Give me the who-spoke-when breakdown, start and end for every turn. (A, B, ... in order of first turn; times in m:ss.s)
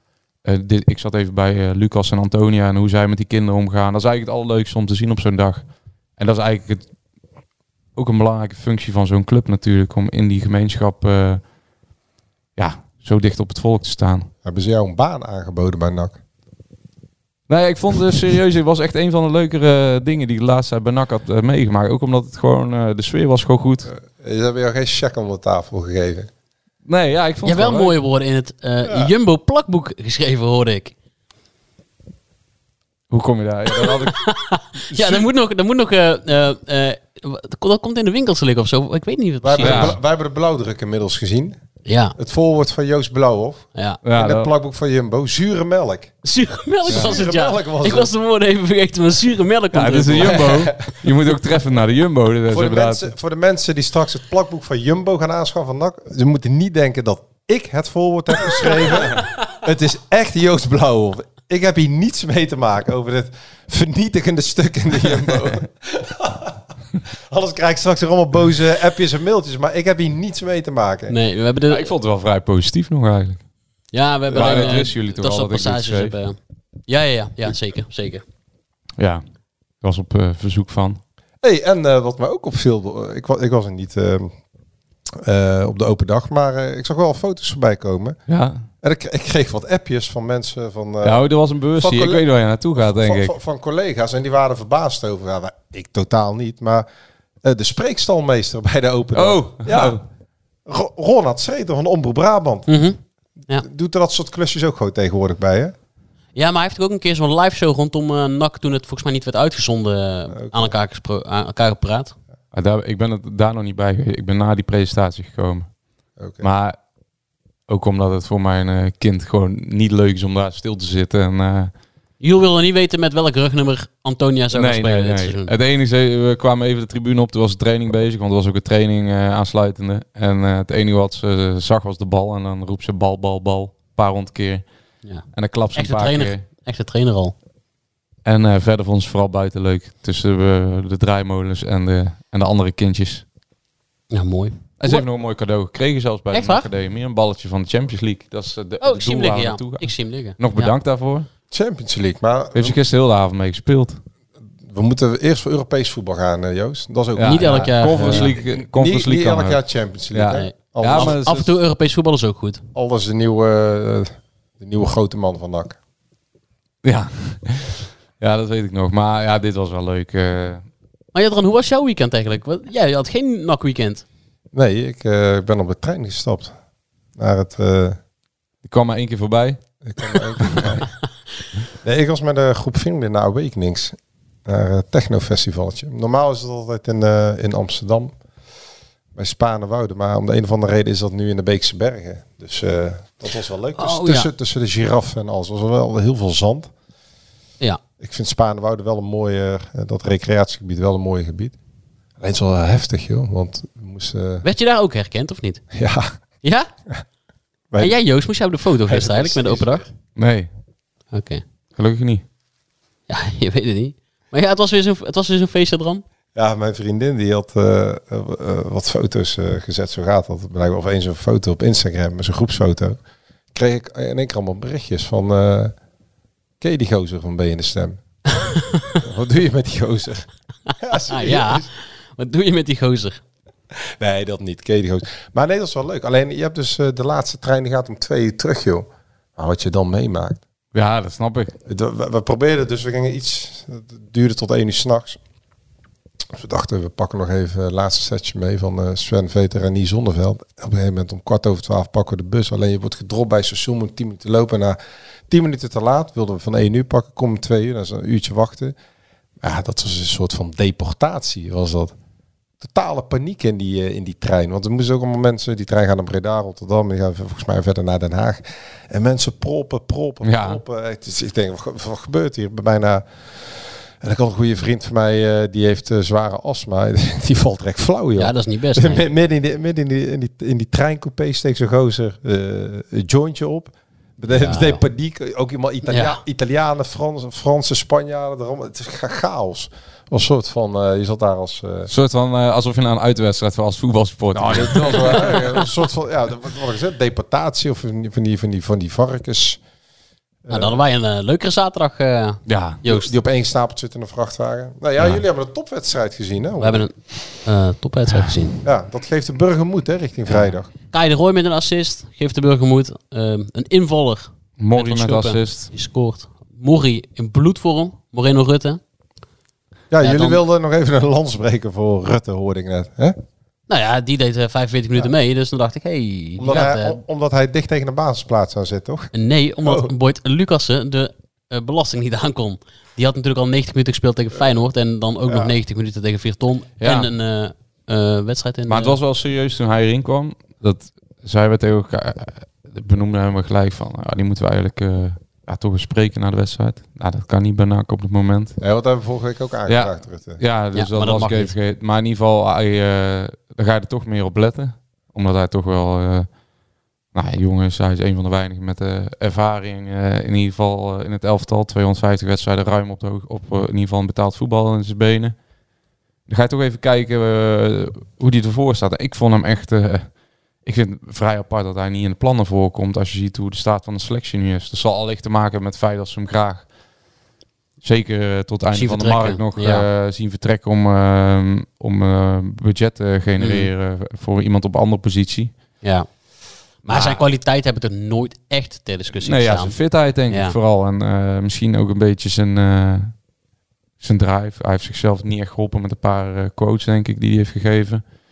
0:00.4-0:05.7 A
0:06.2-0:06.8 A
0:07.9-0:11.4 A
0:12.6-0:14.3 A
0:14.4-0:16.2 B
0:17.5-0:23.9 A
0:23.8-0:26.3 B
0:26.8-0:27.9 A
0:27.4-0:30.9 C
0:33.1-0:34.2 A
0:33.7-0:39.9 C
0:34.9-0:35.3 B
0:39.4-0:41.6 B
0:39.6-0:39.9 A
0:41.8-0:42.2 C
0:42.2-0:46.1 B
0:43.7-0:44.0 C
0:44.0-0:44.5 A
0:46.2-0:50.5 C
0:46.8-0:48.1 B
0:46.9-0:47.1 A
0:49.7-0:53.1 A
0:50.2-0:50.9 B
0:52.5-1:06.6 B
1:07.3-1:11.2 B
1:11.1-1:11.9 C
1:11.7-1:13.4 A
1:13.9-1:18.2 C
1:14.3-1:16.1 A
1:14.3-1:14.8 B
1:19.0-1:19.2 A
1:19.8-1:21.0 A
1:21.4-1:24.3 B
1:25.2-1:28.2 B
1:28.3-1:28.6 A
1:28.8-1:31.2 B
1:31.0-1:33.3 A
1:31.8-1:36.8 B
1:37.4-1:40.0 B
1:39.1-1:40.0 A
1:40.7-1:42.7 B
1:42.7-1:43.0 C
1:43.6-1:45.7 B
1:46.3-1:52.1 C
1:50.3-1:50.7 B
1:52.5-1:55.7 A
1:56.2-1:56.5 B
1:56.4-1:56.8 A
1:57.7-2:01.7 A
2:02.2-2:05.5 C
2:04.5-2:14.6 A
2:15.0-2:17.3 C
2:15.3-2:16.4 A
2:18.2-2:23.2 A
2:24.1-2:25.0 C
2:24.8-2:31.3 A
2:26.3-2:26.7 C
2:28.8-2:30.7 C
2:31.5-2:32.8 B
2:32.5-2:34.0 A
2:34.6-2:41.2 B
2:37.1-2:39.6 A
2:37.2-2:38.4 C
2:40.1-2:41.5 A
2:40.3-2:42.6 C
2:42.7-2:45.8 B
2:46.8-2:50.6 A
2:51.1-2:54.0 C
2:54.5-2:56.5 B
2:57.2-2:58.0 B
2:58.6-2:59.6 A
2:59.8-3:00.9 B
3:01.8-3:08.1 B
3:09.1-3:16.7 B
3:13.8-3:14.3 C
3:18.0-3:21.6 B
3:22.2-3:24.4 B
3:24.4-3:25.6 C
3:25.7-3:26.1 B
3:26.4-3:26.7 C
3:27.8-3:29.8 C
3:28.8-3:29.9 B
3:30.2-3:30.5 A
3:31.1-3:31.4 C
3:31.8-3:32.2 A
3:33.1-3:36.0 C
3:36.3-3:43.0 B
3:43.5-3:45.7 B
3:46.6-3:48.0 B
3:48.3-3:49.0 C
3:49.0-3:50.3 B
3:50.7-3:53.2 C
3:50.8-3:51.7 B
3:53.8-4:00.4 B
4:00.7-4:01.5 A
4:01.7-4:05.2 B
4:06.3-4:18.7 B
4:19.4-4:21.9 B
4:22.6-4:51.9 B
4:30.2-4:30.6 A
4:38.2-4:39.0 C
4:44.3-4:44.8 C
4:45.9-4:46.2 C
4:51.9-4:55.4 A
4:54.3-4:59.6 B
5:00.4-5:00.8 B
5:00.5-5:03.1 C
5:02.4-5:02.8 A
5:02.8-5:06.9 B
5:06.6-5:08.6 C
5:08.6-5:10.7 B
5:10.3-5:18.8 C
5:14.6-5:15.7 A
5:19.9-5:23.2 B
5:20.0-5:20.4 C
5:23.7-5:27.0 C
5:26.4-5:29.1 B
5:29.1-5:39.0 C
5:29.6-5:29.9 B
5:35.3-5:35.5 B
5:36.8-5:37.1 A
5:38.7-5:48.6 A
5:48.6-5:50.4 B
5:49.7-5:56.3 A
5:50.7-5:51.5 C
5:57.1-6:05.4 A
6:06.3-6:10.1 A
6:10.6-6:16.7 A
6:17.8-6:25.6 A
6:18.7-6:19.8 C
6:23.4-6:23.7 C
6:25.8-6:26.1 C
6:26.8-6:29.8 C
6:26.8-6:27.2 A
6:29.2-6:33.2 A
6:30.3-6:30.6 C
6:34.0-6:38.0 A